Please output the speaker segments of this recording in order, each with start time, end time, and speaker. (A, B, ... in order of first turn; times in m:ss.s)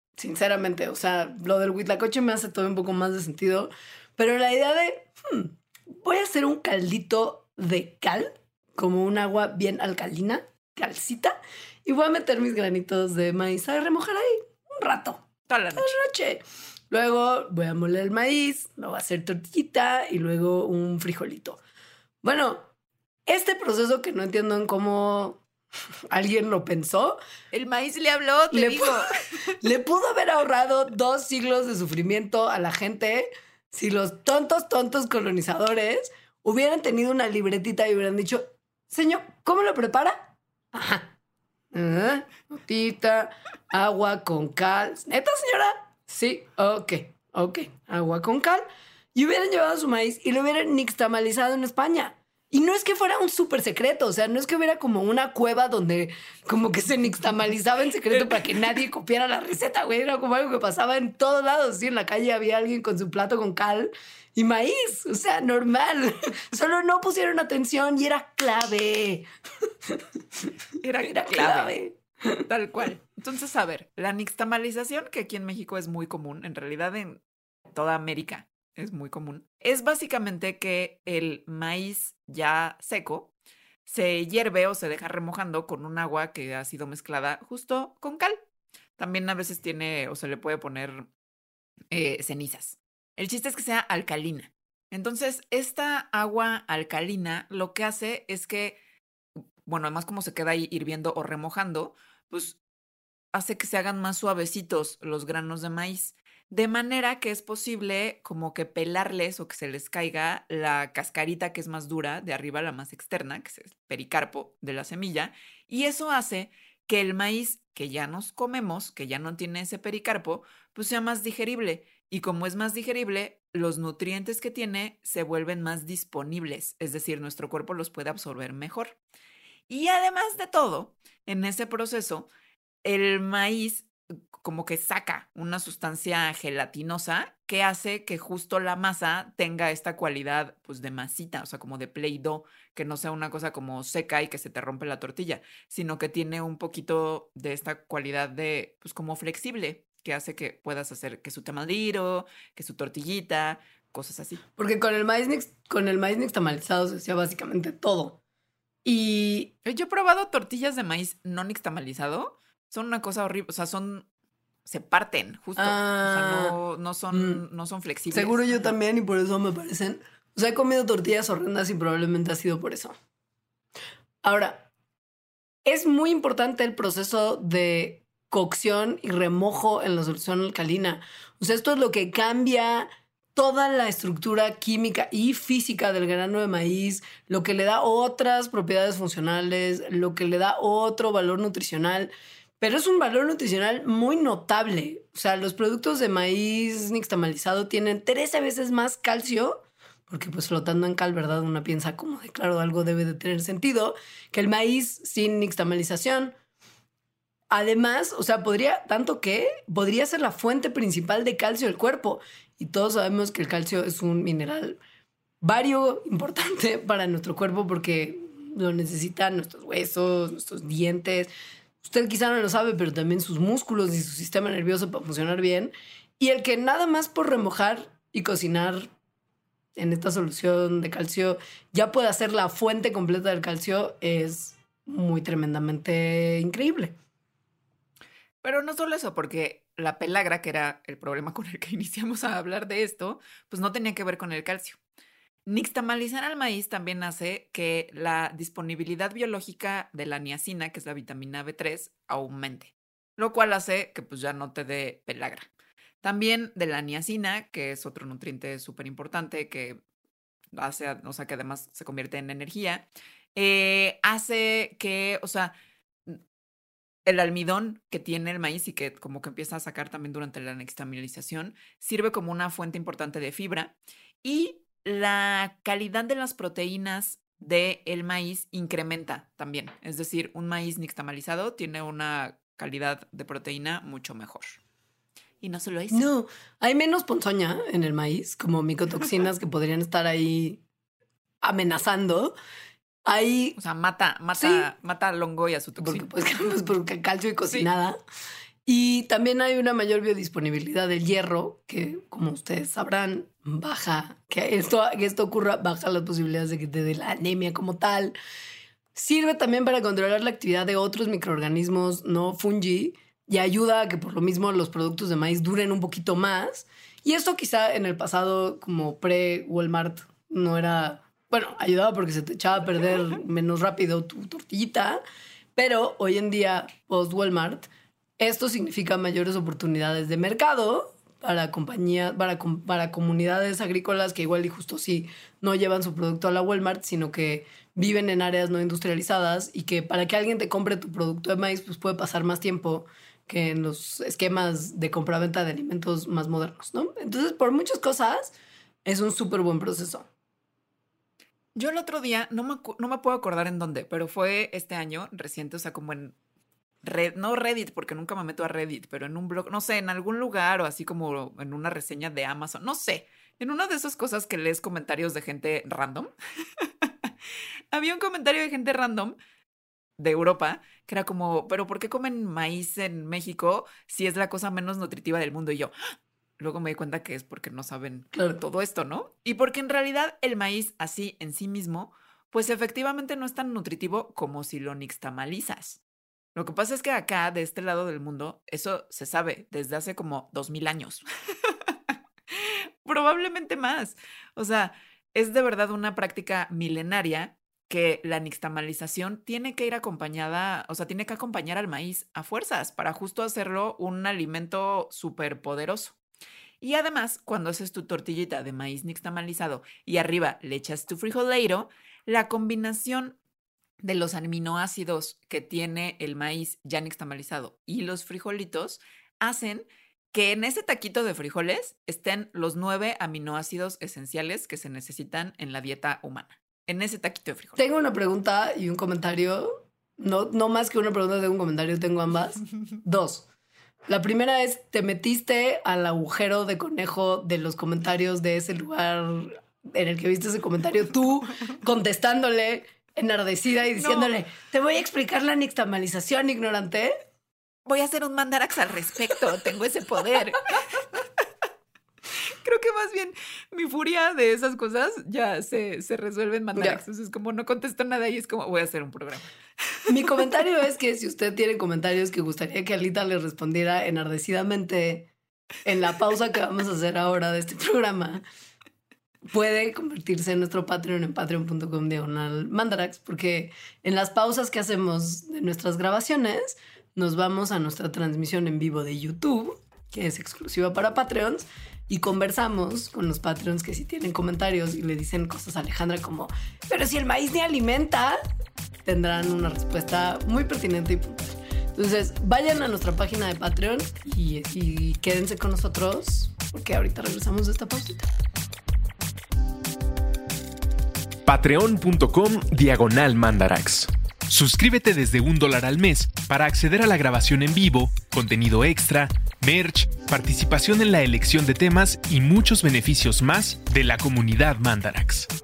0:00.2-0:15.2 A
0:15.5-0:16.0 B
0:15.7-0:21.6 A
0:22.2-0:22.7 A
0:23.3-0:25.4 A
0:26.1-0:27.2 A
0:27.5-0:29.1 B
0:28.5-0:29.1 A
0:29.6-0:41.1 A
0:41.7-1:09.3 A
1:10.8-1:11.8 B
1:11.0-1:12.5 A
1:12.5-1:23.3 B
1:23.8-1:28.4 B
1:29.0-1:31.1 B
1:31.9-1:38.8 B
1:39.6-1:42.6 B
1:43.3-2:09.0 B
2:09.7-2:12.3 B
2:12.8-2:34.4 B
2:34.6-2:38.2 A
2:38.8-2:39.5 A
2:39.6-2:44.0 B
2:44.6-2:48.7 B
2:45.6-2:46.6 A
2:47.1-2:47.4 A
2:48.1-2:53.0 A
2:54.2-2:54.7 A
2:55.6-3:26.3 A
3:27.5-3:34.8 A
3:35.4-3:41.3 A
3:41.8-3:48.9 A
3:49.8-3:57.0 A
3:58.4-4:04.8 B
4:05.4-4:15.5 B
4:16.0-4:19.8 B
4:20.5-4:25.5 B
4:27.0-4:44.6 B
4:45.4-4:46.1 B
4:45.9-4:50.6 A
4:51.4-4:52.3 A
4:53.0-4:53.6 A
4:53.6-4:56.1 B
4:54.4-4:54.7 A
4:55.8-4:58.0 A
4:58.6-5:08.1 A
5:08.9-5:25.0 A
5:25.6-5:27.7 A
5:28.2-5:48.3 A
5:48.8-5:50.1 A
5:51.5-5:56.2 B
5:56.8-6:07.1 B
6:07.7-6:09.2 B
6:10.0-6:15.7 B
6:16.4-6:25.8 B
6:18.1-6:18.4 A
6:26.3-6:45.9 B
6:46.6-6:53.2 B
6:53.8-7:07.6 B
7:07.6-7:13.2 A
7:13.9-7:26.9 A
7:23.7-7:24.1 B
7:27.6-7:31.2 B
7:32.2-7:39.3 B
7:36.5-7:36.8 A
7:39.9-7:45.1 A
7:45.6-7:48.2 A
7:49.3-8:08.2 A
8:08.8-8:18.1 A
8:21.2-8:35.3 C